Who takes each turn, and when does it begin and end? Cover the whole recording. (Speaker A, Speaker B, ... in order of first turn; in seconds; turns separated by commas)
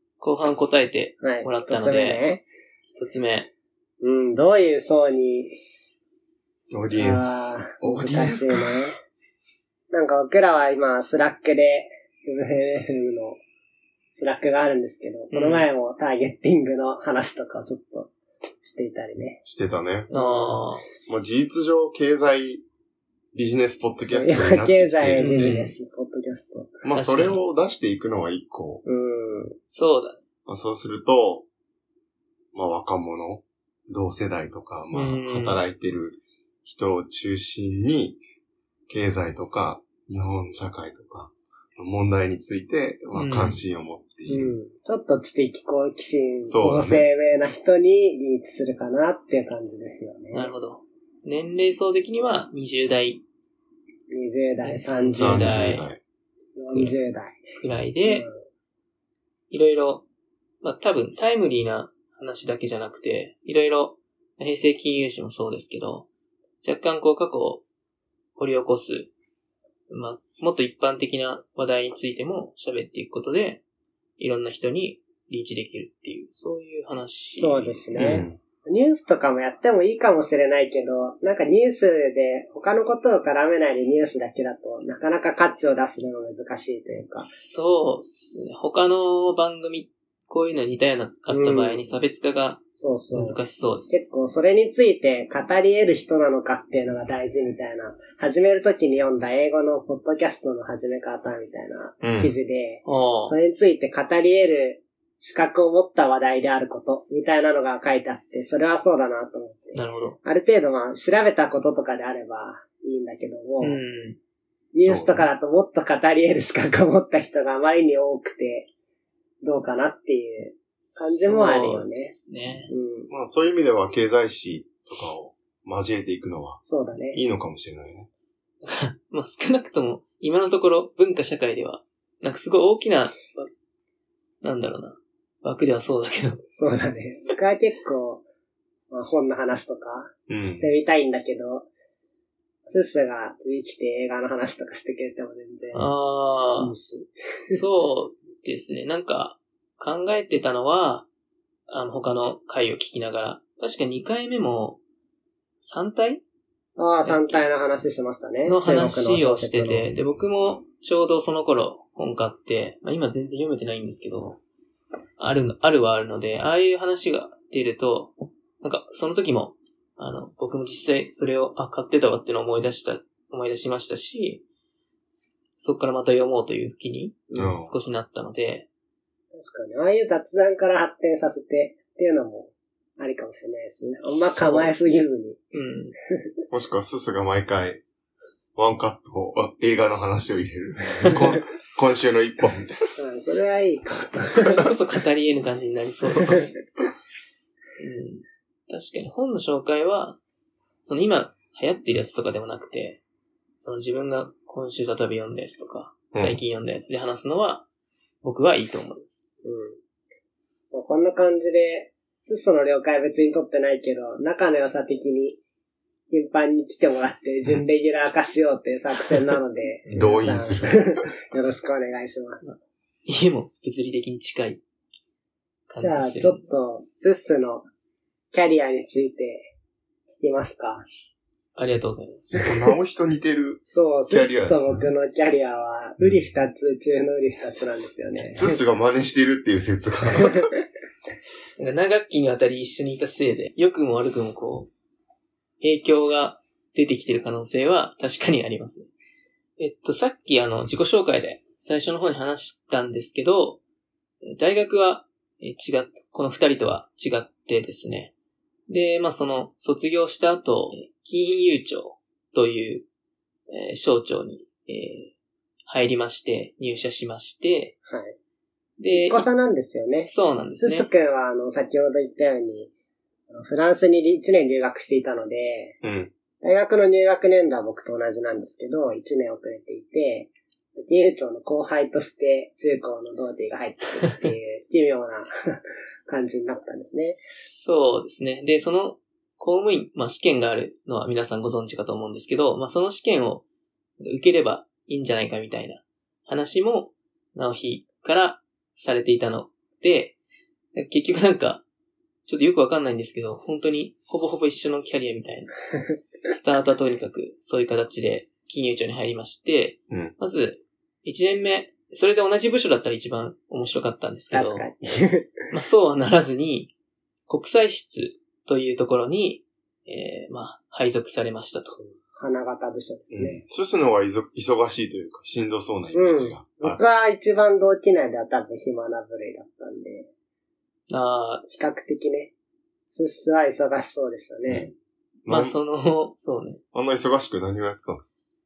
Speaker A: 0.2-2.2, Speaker B: 1.2-2.4, Speaker A: 3.0-3.5, Speaker B: 4.0-5.6, Speaker C: 6.7-8.9, Speaker B: 7.0-9.0, Speaker B: 9.9-13.4, Speaker B: 14.2-18.1, Speaker A: 15.3-15.7, Speaker B: 18.6-19.4, Speaker C: 19.4-20.1, Speaker B: 20.1-20.7, Speaker A: 20.1-20.9, Speaker C: 21.1-22.6, Speaker C: 23.3-25.6, Speaker B: 24.1-26.8, Speaker A: 25.2-25.8, Speaker C: 26.8-28.8, Speaker A: 26.9-27.4, Speaker B: 28.9-29.6, Speaker A: 29.7-30.2, Speaker C: 30.5-31.5, Speaker C: 32.5-38.2, Speaker A: 34.9-35.6, Speaker C: 38.9-44.5, Speaker A: 43.1-43.6, Speaker B: 44.3-50.5, Speaker C: 46.5-47.0, Speaker A: 50.3-53.2, Speaker B: 54.1-55.7, Speaker A: 54.6-55.9, Speaker C: 55.2-56.0, Speaker B: 56.6-57.4, Speaker A: 57.6-58.3, Speaker B: 58.0-58.4, Speaker A: 59.5-60.0, Speaker A: 60.6-66.1, Speaker A: 66.6-67.6, Speaker A: 68.4-69.1, Speaker A: 69.9-73.6, Speaker A: 74.2-78.0, Speaker B: 77.3-87.3, Speaker C: 78.0-78.4, Speaker A: 87.2-92.6, Speaker B: 91.3-91.8, Speaker B: 92.8-113.8, Speaker A: 93.1-93.9, Speaker C: 102.0-102.3, Speaker A: 102.9-103.4, Speaker A: 109.7-110.2, Speaker A: 113.6-114.2, Speaker B: 114.7-118.7, Speaker C: 114.8-115.3, Speaker B: 119.4-122.1, Speaker A: 120.9-122.7, Speaker B: 122.7-123.1, Speaker C: 123.1-128.1, Speaker B: 126.7-127.2, Speaker A: 128.6-133.5, Speaker A: 134.4-136.4, Speaker B: 136.5-138.2, Speaker B: 138.9-141.7, Speaker C: 140.3-140.7, Speaker B: 142.7-145.9, Speaker A: 145.7-146.7, Speaker B: 146.6-147.6, Speaker A: 147.5-151.1, Speaker A: 151.7-154.8, Speaker A: 155.6-156.2, Speaker B: 156.8-159.9, Speaker A: 157.0-157.5, Speaker A: 158.4-164.4, Speaker A: 165.2-174.4, Speaker A: 175.6-178.7, Speaker B: 177.3-177.6, Speaker C: 177.3-177.8, Speaker B: 179.3-185.4, Speaker A: 184.3-184.7, Speaker A: 185.5-185.9, Speaker C: 186.5-187.8, Speaker C: 188.6-192.8, Speaker B: 193.0-194.7, Speaker A: 194.3-196.5, Speaker A: 197.8-200.2, Speaker A: 200.8-203.0, Speaker A: 203.6-207.7, Speaker C: 206.1-206.4, Speaker A: 208.2-209.2, Speaker B: 209.4-209.8, Speaker B: 210.7-215.4, Speaker B: 216.1-222.4, Speaker C: 219.9-220.9, Speaker A: 222.4-224.6, Speaker A: 225.7-226.4, Speaker B: 225.8-227.7, Speaker B: 228.3-229.5, Speaker B: 230.1-230.9, Speaker A: 231.6-232.3, Speaker C: 232.4-234.9, Speaker B: 233.7-238.5, Speaker C: 236.0-236.3, Speaker C: 238.3-240.5, Speaker A: 241.6-244.7, Speaker A: 245.6-248.9, Speaker A: 249.6-253.6, Speaker A: 254.2-258.1, Speaker A: 258.7-262.9, Speaker A: 263.5-265.1, Speaker A: 265.7-267.8, Speaker B: 267.9-268.2, Speaker A: 268.8-269.3, Speaker B: 268.9-272.7, Speaker A: 270.1-270.9, Speaker B: 273.3-275.8, Speaker C: 275.8-276.1, Speaker B: 276.4-287.2, Speaker A: 287.4-293.4, Speaker A: 294.0-300.2, Speaker A: 300.8-301.6, Speaker A: 302.3-305.5, Speaker A: 306.3-314.7, Speaker B: 314.3-315.3, Speaker A: 315.5-316.7, Speaker A: 317.3-321.8, Speaker B: 321.8-323.4, Speaker C: 323.1-326.8, Speaker B: 325.9-330.1, Speaker A: 330.9-331.4, Speaker B: 331.5-332.3, Speaker B: 332.9-334.7, Speaker C: 334.5-334.7, Speaker C: 335.3-335.6, Speaker A: 335.3-336.6, Speaker C: 336.7-338.1